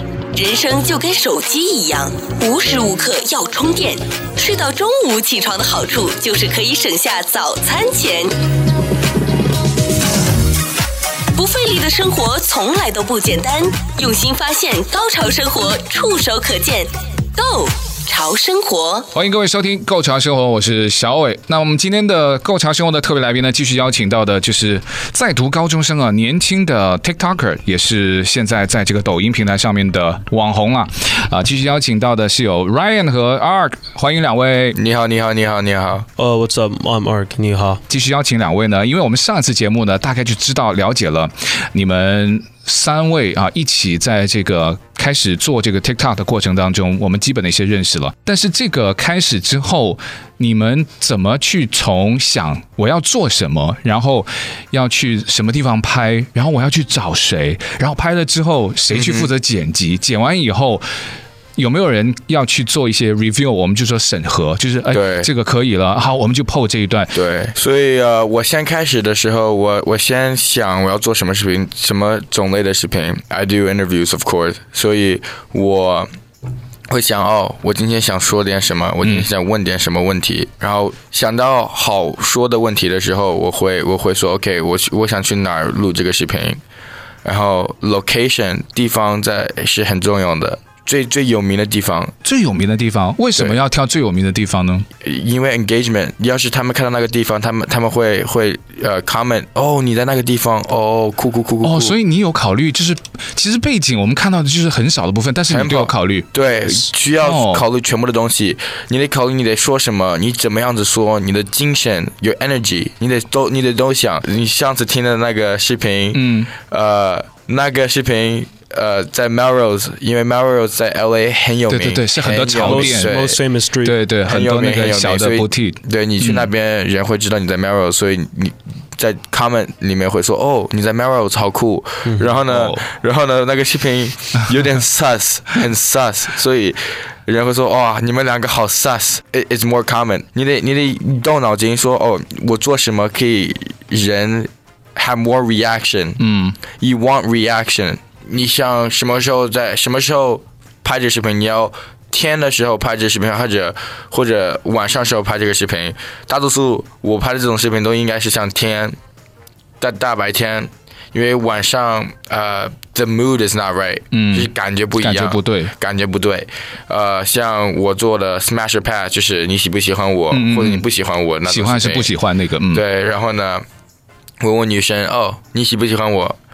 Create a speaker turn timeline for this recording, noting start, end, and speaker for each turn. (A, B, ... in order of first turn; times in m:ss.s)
0:00.3-0:08.4 A
0:11.4-0:19.1 A
0:19.1-0:34.8 B
0:34.8-0:36.1 C
0:36.2-0:37.8 D
0:37.9-1:00.8 B
0:58.9-0:59.3 C
1:01.6-1:07.2 B
1:04.9-1:05.3 C
1:07.1-1:16.1 C
1:16.9-1:26.6 C
1:19.0-1:19.3 B
1:27.2-1:32.2 C
1:32.2-1:34.9 B
1:35.0-1:41.9 C
1:41.6-1:46.3 B
1:45.5-2:03.4 C
1:47.2-1:47.6 B
1:56.1-1:56.5 B
2:01.7-2:03.3 B
2:02.5-2:04.0 D
2:03.8-2:06.5 B
2:04.2-2:26.2 C
2:12.0-2:12.3 D
2:12.5-2:12.8 B
2:26.2-2:26.6 B
2:26.8-2:39.0 C
2:39.8-2:52.1 C
2:44.1-2:45.7 B
2:50.3-2:50.9 B
2:51.4-2:52.8 B
2:52.7-2:53.6 C
2:54.4-2:56.4 C